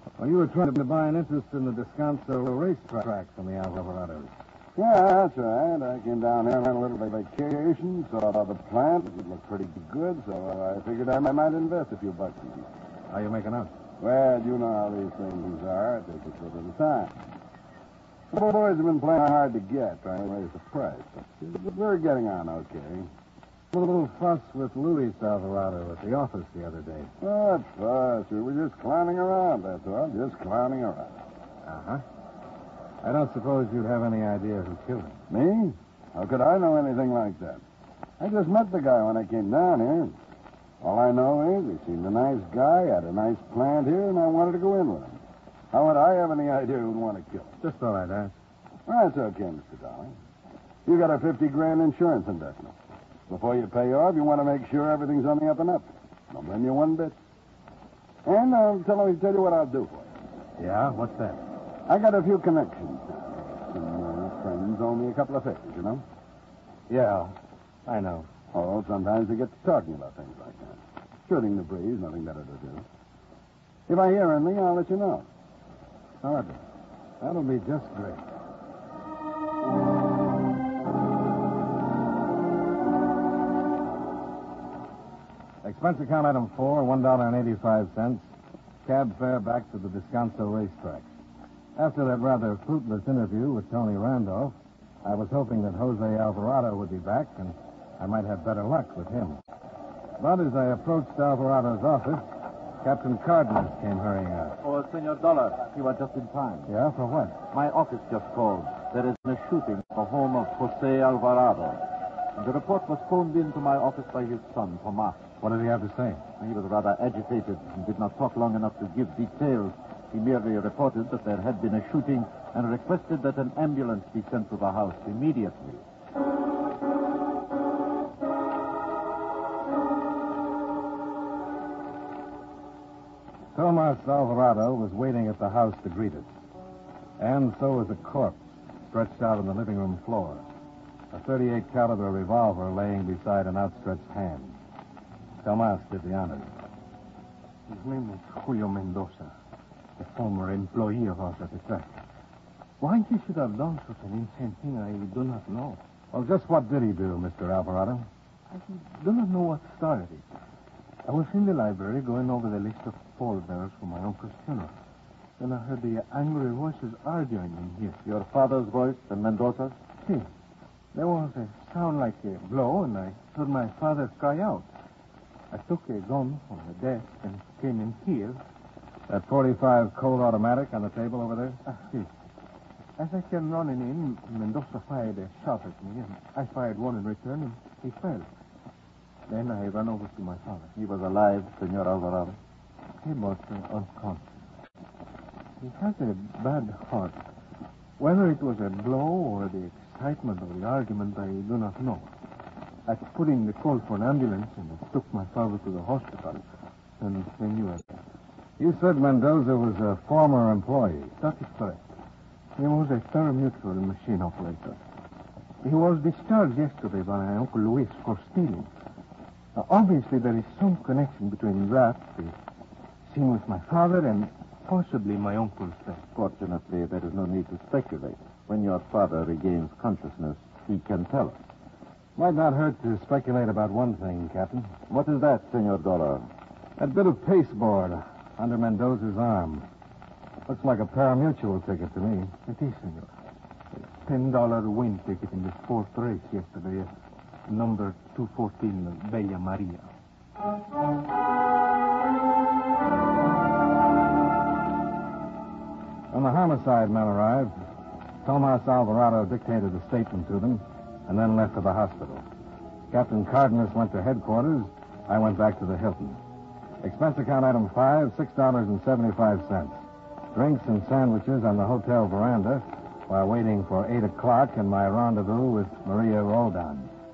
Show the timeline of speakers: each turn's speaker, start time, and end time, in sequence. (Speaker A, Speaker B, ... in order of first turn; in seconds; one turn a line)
Speaker A: 0.2-4.3
Speaker B: 4.8-12.7
Speaker A: 13.1-13.7
Speaker B: 14.0-17.1
Speaker B: 18.3-23.1
Speaker A: 23.7-27.1
Speaker B: 27.2-31.2
Speaker A: 31.6-32.0
Speaker A: 33.0-35.2
Speaker B: 35.3-37.6
Speaker B: 38.2-40.2
Speaker B: 40.8-45.2
Speaker B: 45.7-47.5
Speaker A: 47.6-48.3
Speaker B: 48.9-50.1
Speaker B: 50.9-52.7
Speaker B: 53.3-57.1
Speaker B: 58.2-60.1
Speaker A: 60.6-61.4
Speaker B: 61.9-66.0
Speaker A: 66.9-68.3
Speaker B: 68.5-72.8
Speaker B: 73.9-75.2
Speaker B: 76.2-76.5
Speaker A: 77.2-78.2
Speaker A: 85.6-88.3
Speaker A: 88.8-91.1
Speaker A: 91.8-99.4
Speaker A: 100.2-102.2
Speaker A: 102.8-104.6
Speaker C: 104.6-106.7
Speaker A: 106.7-107.4
Speaker C: 107.5-111.8
Speaker C: 112.3-115.2
Speaker A: 115.4-116.2
Speaker C: 116.4-125.8
Speaker A: 133.5-136.3
Speaker A: 137.2-138.4
Speaker A: 138.9-140.4
Speaker A: 141.1-144.6
Speaker A: 145.4-146.5
Speaker D: 147.7-149.3
Speaker D: 150.0-151.9
Speaker D: 152.8-155.8
Speaker A: 156.1-158.1
Speaker D: 158.5-160.2
Speaker D: 161.0-164.7
Speaker D: 165.4-168.0
Speaker C: 168.0-169.7
Speaker D: 170.0-170.3
Speaker D: 170.9-174.7
Speaker D: 175.5-178.4
Speaker A: 179.1-181.6
Speaker D: 181.7-182.1
Speaker D: 183.0-188.3
Speaker D: 189.3-190.7
Speaker C: 190.8-192.4
Speaker D: 193.0-194.2
Speaker D: 195.6-197.2
Speaker D: 198.0-202.1
Speaker D: 202.9-206.4
Speaker D: 207.0-208.0
Speaker A: 208.6-211.1
Speaker D: 211.2-211.8
Speaker D: 212.6-214.8
Speaker D: 215.6-218.7
Speaker D: 219.5-222.3
Speaker D: 223.1-226.0
Speaker C: 226.1-231.4
Speaker A: 232.2-234.7
Speaker C: 234.9-236.2
Speaker A: 236.8-239.7
Speaker A: 240.5-242.3
Speaker D: 242.4-243.1
Speaker D: 243.8-246.9
Speaker D: 247.5-249.9
Speaker A: 256.1-257.6
Speaker A: 258.2-262.2
Speaker A: 262.9-266.2
Speaker A: 266.8-269.8
Speaker A: 270.3-276.9